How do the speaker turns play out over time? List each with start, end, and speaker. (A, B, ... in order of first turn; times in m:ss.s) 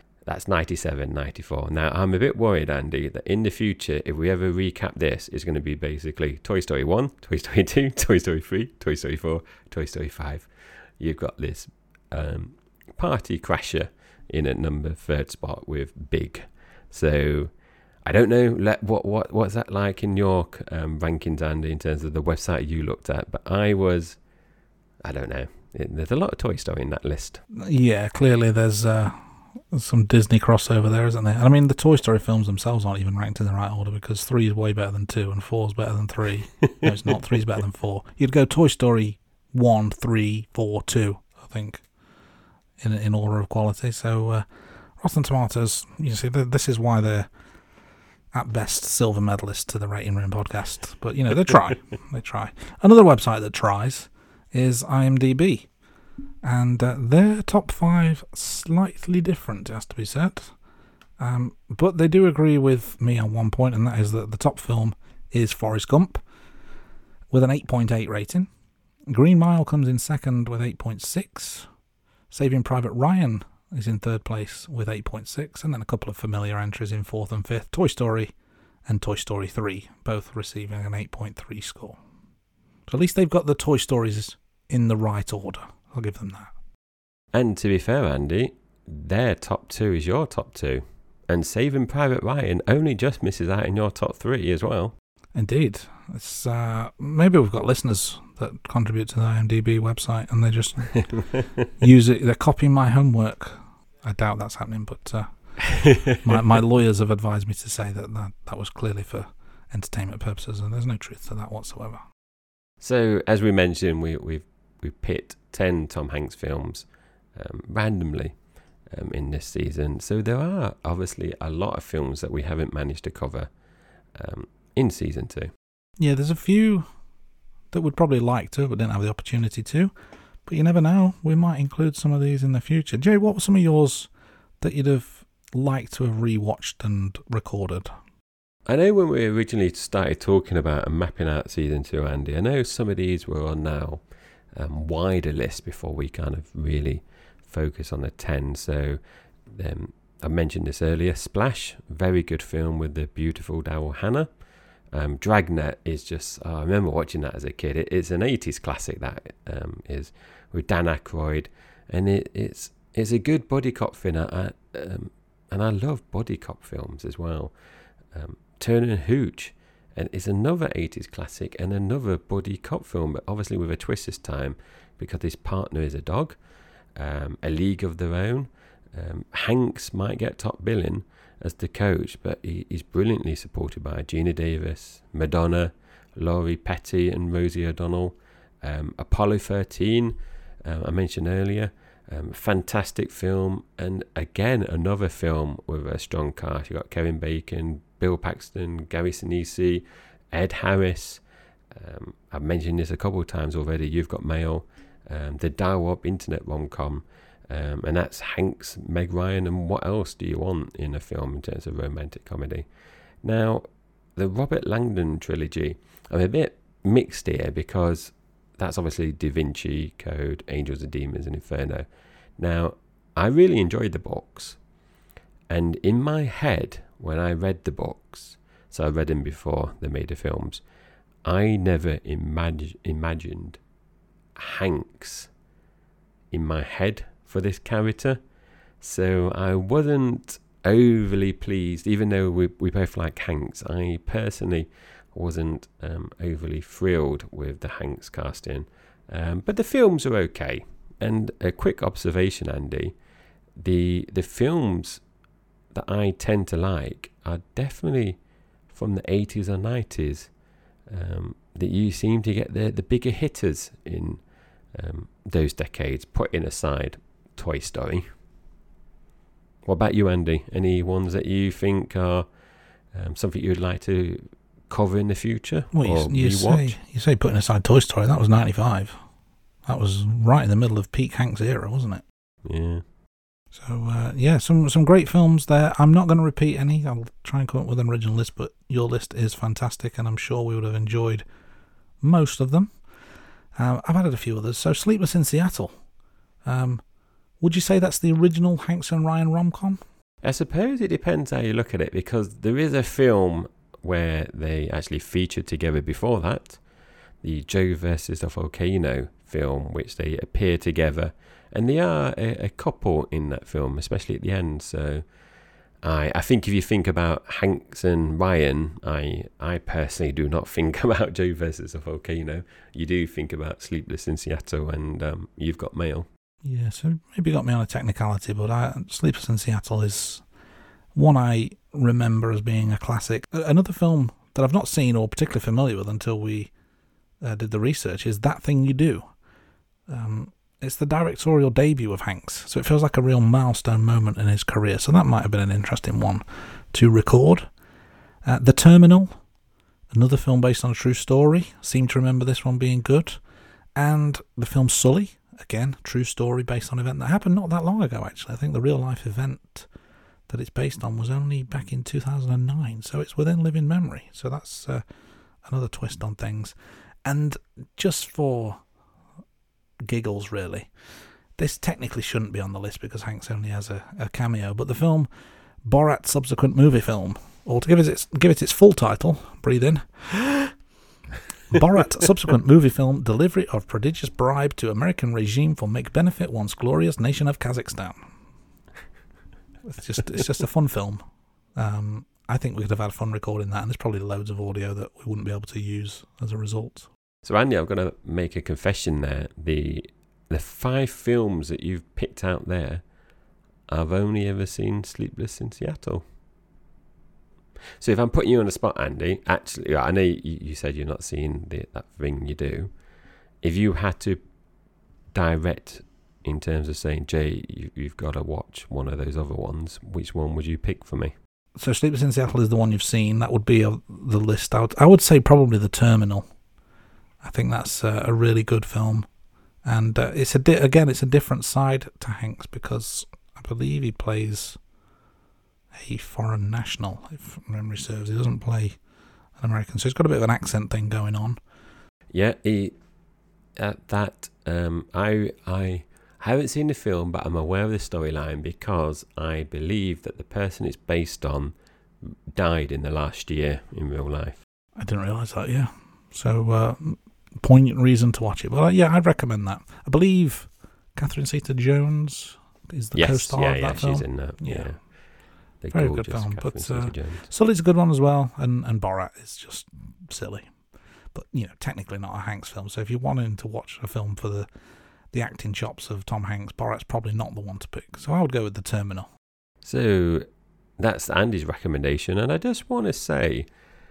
0:00.2-0:17.5 A
0:18.0-0:24.2 A
0:25.0-0:27.4 A
0:27.5-0:29.2 B
0:29.7-0:41.8 B
0:42.8-0:44.4 B
0:45.0-0:47.3 B
0:48.3-0:55.7 B
0:56.4-1:00.5 B
1:01.2-1:06.2 B
1:07.3-1:08.5 B
1:09.1-1:11.7 B
1:12.3-1:18.3 B
1:18.9-1:22.0 B
1:22.9-1:26.5 B
1:27.3-1:35.0 A
1:35.3-1:41.2 B
1:41.8-1:52.0 B
1:45.8-1:46.2 A
1:52.8-1:58.4 A
1:58.9-2:03.5 A
2:04.1-2:05.5 A
2:06.0-2:06.9 B
2:07.7-2:09.9 B
2:10.4-2:14.1 B
2:14.6-2:17.9 B
2:18.7-2:24.0 A
2:24.6-2:29.0 A
2:29.5-2:34.3 A
2:34.9-2:47.5 A
2:48.1-2:56.4 A
2:57.0-3:32.7 A
3:33.2-3:41.9 A
3:42.4-3:44.6 A
3:45.5-3:50.6 A
3:51.2-3:53.6 A
3:54.3-3:55.3 A
3:56.3-3:58.2 A
3:58.8-4:13.0 A
4:13.6-4:15.0 A
4:15.7-4:20.3 A
4:20.9-4:24.2 A
4:24.7-4:28.0 A
4:29.6-4:32.3 A
4:32.9-4:36.8 A
4:35.7-4:39.0 B
4:39.6-4:42.0 B
4:42.4-4:42.8 A
4:43.5-4:51.2 B
4:52.0-4:52.7 B
4:53.6-4:55.8 B
4:56.4-4:56.8 B
4:57.4-4:59.8 B
5:00.2-5:06.6 A
5:07.2-5:15.0 A
5:15.8-5:26.1 A
5:26.4-5:30.2 B
5:31.0-5:36.5 B
5:37.2-5:39.0 B
5:39.9-5:47.5 B
5:48.2-5:49.1 B
5:49.9-5:53.2 B
5:53.7-5:59.7 B
6:00.3-6:04.8 B
6:05.4-6:08.6 B
6:09.8-6:10.7 B
6:11.4-6:15.1 B
6:15.6-6:20.5 B
6:21.5-6:28.0 B
6:29.6-6:31.0 B
6:31.6-6:36.9 B
6:37.2-6:42.8 A
6:43.7-6:46.0 A
6:47.8-6:52.7 A
6:53.4-6:54.2 A
6:55.1-7:01.1 A
7:01.6-7:06.3 B
7:07.2-7:09.1 B
7:09.6-7:14.6 B
7:15.7-7:18.8 B
7:19.4-7:21.4 B
7:22.1-7:22.8 A
7:23.6-7:34.4 A
7:34.8-7:44.7 B
7:43.0-7:44.8 A
7:45.6-7:47.3 A
7:45.7-7:50.5 B
7:51.1-7:54.5 B
7:55.1-7:59.1 B
7:59.6-8:00.3 A
8:00.8-8:03.5 A